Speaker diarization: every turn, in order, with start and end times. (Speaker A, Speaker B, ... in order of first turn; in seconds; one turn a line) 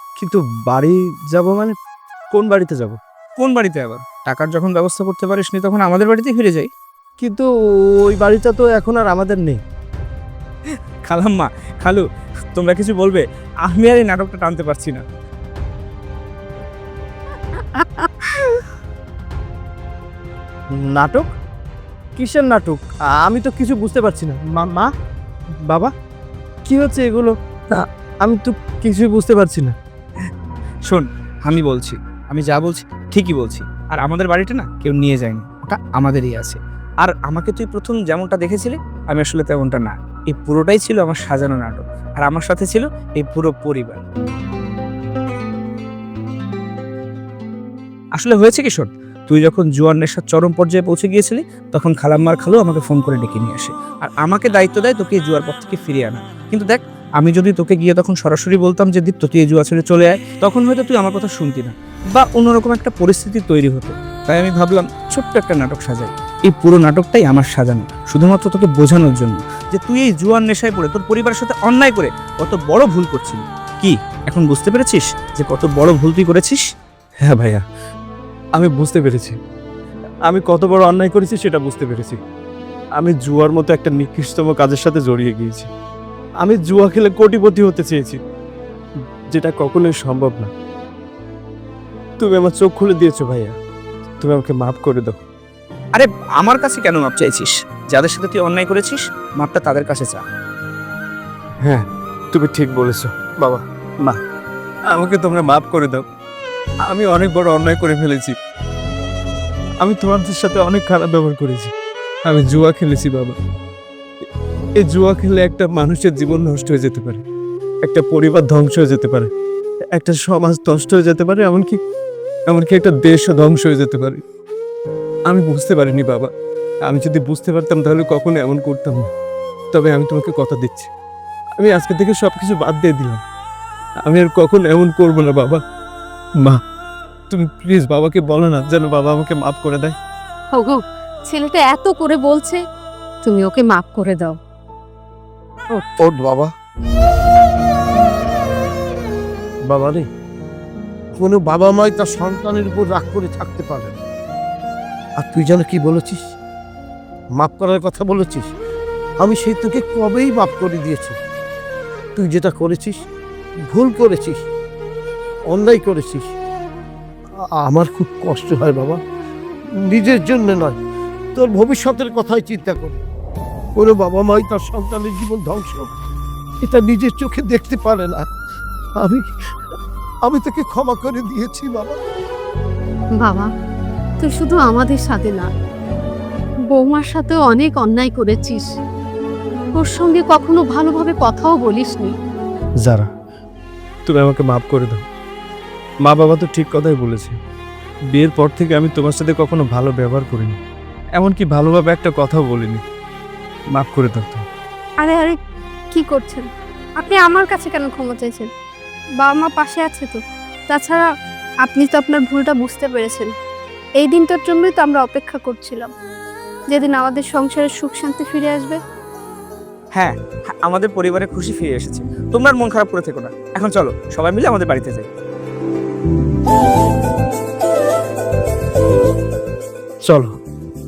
Speaker A: 0.2-1.8
Speaker A: 2.3-3.0
Speaker B: 3.4-6.7
Speaker A: 7.2-9.6
Speaker B: 10.7-12.0
Speaker B: 12.6-15.1
Speaker A: 20.7-21.3
Speaker A: 22.2-24.9
Speaker A: 25.6-25.9
Speaker A: 26.6-29.8
Speaker B: 30.9-44.0
Speaker B: 48.1-76.6
Speaker A: 77.2-77.6
Speaker A: 78.5-79.4
Speaker A: 80.3-82.2
Speaker A: 83.0-85.7
Speaker A: 86.4-88.2
Speaker A: 89.3-90.5
Speaker A: 92.2-93.6
Speaker A: 94.2-95.2
Speaker B: 95.9-100.2
Speaker A: 101.6-104.2
Speaker A: 104.9-106.0
Speaker A: 106.8-108.3
Speaker A: 109.8-111.7
Speaker A: 112.3-113.4
Speaker A: 114.8-117.2
Speaker A: 117.8-119.3
Speaker A: 119.9-121.8
Speaker A: 122.5-124.2
Speaker A: 125.3-126.3
Speaker A: 126.8-129.1
Speaker A: 129.7-130.9
Speaker A: 131.6-133.2
Speaker A: 134.0-135.6
Speaker A: 137.3-140.0
Speaker C: 140.5-142.6
Speaker C: 143.2-144.4
Speaker D: 146.0-146.4
Speaker D: 149.7-150.1
Speaker D: 151.2-153.9
Speaker D: 155.2-156.2
Speaker D: 157.4-158.5
Speaker D: 159.2-161.2
Speaker D: 162.2-163.0
Speaker D: 163.7-164.4
Speaker D: 165.5-166.3
Speaker D: 167.6-169.0
Speaker D: 169.9-170.8
Speaker D: 171.3-173.0
Speaker D: 173.8-175.9
Speaker D: 176.6-178.2
Speaker D: 179.0-179.3
Speaker D: 180.3-182.0
Speaker C: 183.2-183.5
Speaker C: 184.2-185.5
Speaker C: 186.7-188.7
Speaker C: 189.8-192.1
Speaker A: 192.8-193.1
Speaker A: 194.1-195.1
Speaker A: 196.1-197.4
Speaker A: 198.1-200.6
Speaker A: 201.2-202.8
Speaker A: 203.7-204.4
Speaker E: 205.0-205.4
Speaker E: 205.9-206.5
Speaker E: 207.0-208.5
Speaker E: 209.2-211.1
Speaker E: 211.7-213.3
Speaker E: 214.0-215.9
Speaker E: 216.7-218.8
Speaker B: 219.9-225.1
Speaker A: 230.0-230.4